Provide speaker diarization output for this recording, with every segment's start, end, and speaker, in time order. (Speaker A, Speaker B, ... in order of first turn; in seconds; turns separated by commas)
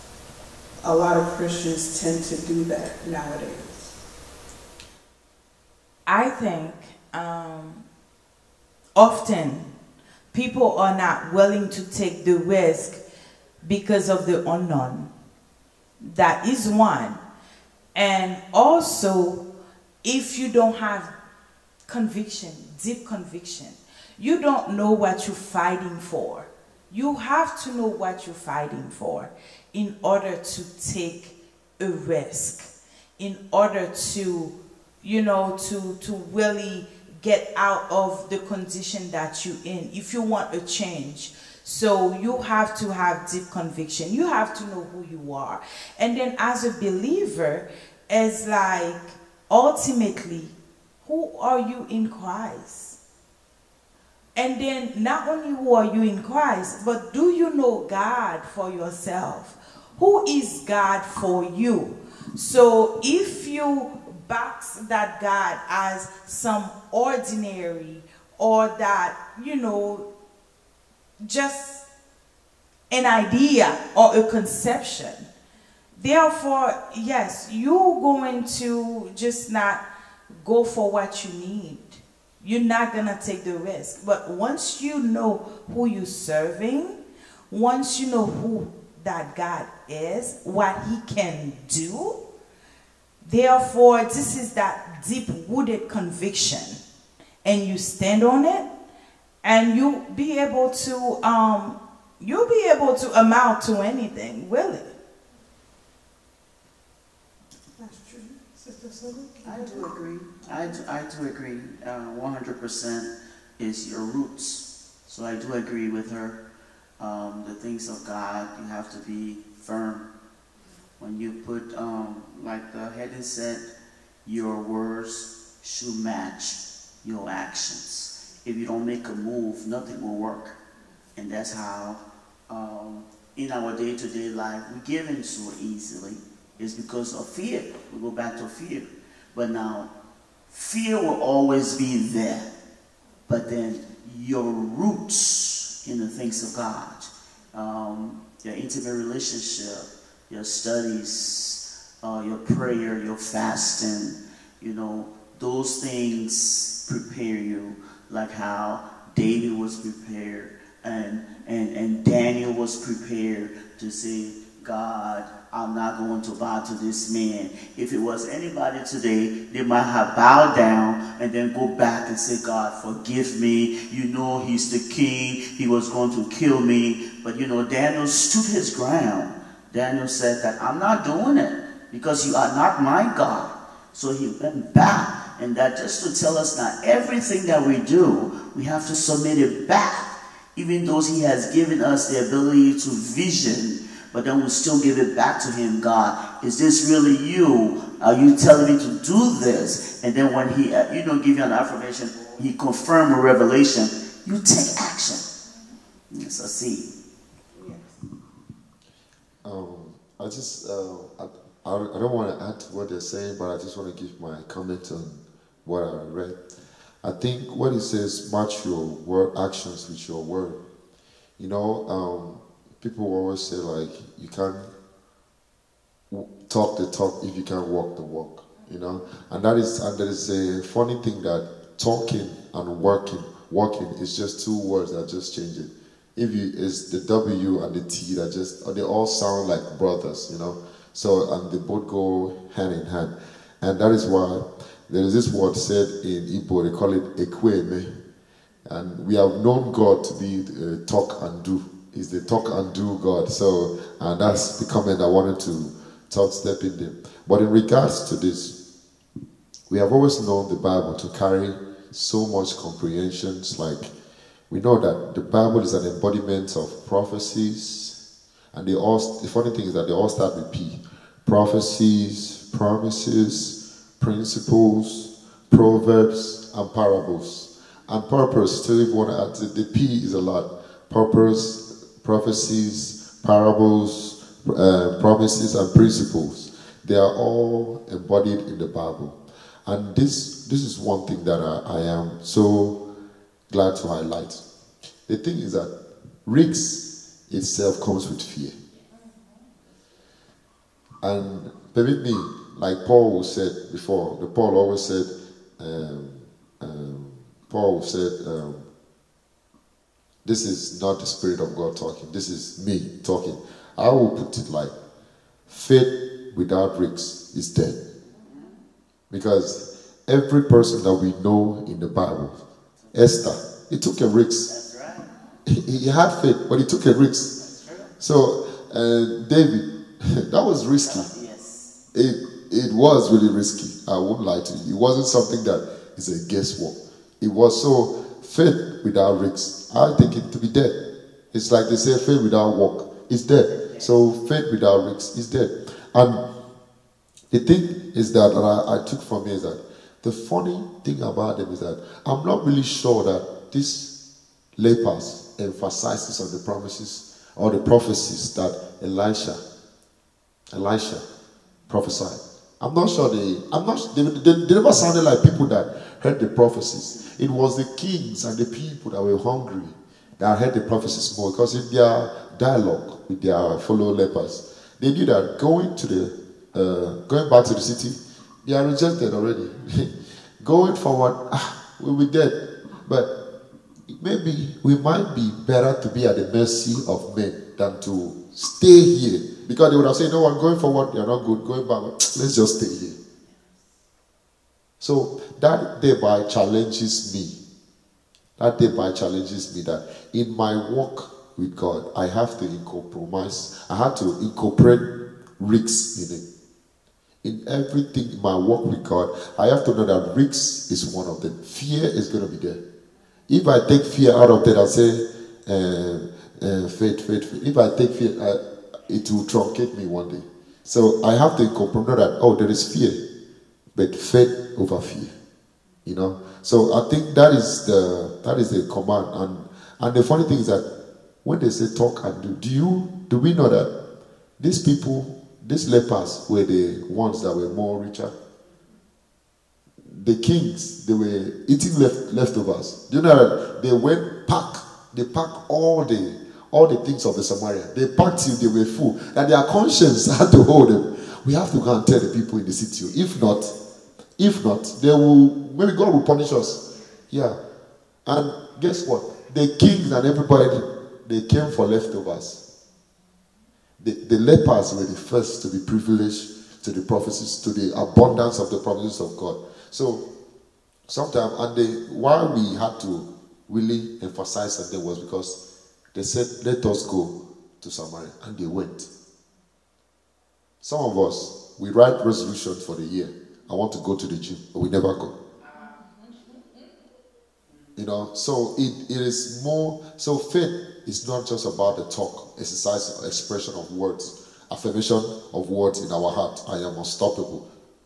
Speaker A: 0.8-3.9, Speaker B: 6.1-7.8, Speaker B: 8.9-9.7, Speaker B: 10.3-13.0, Speaker B: 13.6-15.1, Speaker B: 16.0-17.2, Speaker B: 17.9-19.4, Speaker B: 20.0-21.1, Speaker B: 21.9-53.0, Speaker B: 54.4-70.1, Speaker B: 71.2-71.8, Speaker B: 72.9-75.3, Speaker B: 76.0-79.8, Speaker B: 80.4-87.0, Speaker B: 87.5-92.2, Speaker B: 93.2-96.8, Speaker B: 97.4-98.7, Speaker B: 99.4-104.9, Speaker A: 107.8-110.0, Speaker C: 109.4-116.4, Speaker C: 117.0-120.0, Speaker C: 121.0-123.7, Speaker C: 124.2-130.6, Speaker C: 131.1-139.9, Speaker C: 140.5-142.5, Speaker C: 143.3-205.2, Speaker C: 206.1-206.9, Speaker A: 207.5-208.0, Speaker D: 209.4-216.4, Speaker D: 217.0-220.6, Speaker D: 221.4-224.7, Speaker D: 226.1-248.0, Speaker D: 248.7-258.5, Speaker D: 259.7-263.9, Speaker D: 264.5-268.0, Speaker D: 268.5-292.8, Speaker D: 293.5-294.4, Speaker D: 295.1-295.7, Speaker D: 296.2-298.5, Speaker D: 301.0-308.6, Speaker D: 310.2-314.7, Speaker D: 315.5-317.8, Speaker C: 318.0-318.6, Speaker D: 319.1-322.4, Speaker C: 322.8-323.1, Speaker D: 322.9-324.5, Speaker C: 324.5-325.1, Speaker D: 325.4-327.3, Speaker C: 327.4-327.9, Speaker D: 328.0-331.1, Speaker C: 330.8-331.7, Speaker D: 331.9-340.7, Speaker D: 341.3-346.2, Speaker C: 343.5-344.0, Speaker D: 347.3-353.9, Speaker D: 354.6-359.4, Speaker D: 360.5-361.0, Speaker D: 361.7-383.1, Speaker D: 383.9-393.0, Speaker D: 394.8-397.4, Speaker D: 398.4-406.2, Speaker D: 407.2-412.6, Speaker D: 413.3-423.0, Speaker D: 423.7-425.1, Speaker D: 425.8-430.6, Speaker D: 431.2-433.7, Speaker D: 434.4-438.1, Speaker D: 439.8-453.5, Speaker D: 454.2-457.4, Speaker D: 458.1-462.4, Speaker D: 463.8-470.0, Speaker D: 470.9-475.4, Speaker D: 475.9-478.9, Speaker D: 480.6-485.1, Speaker D: 487.8-497.4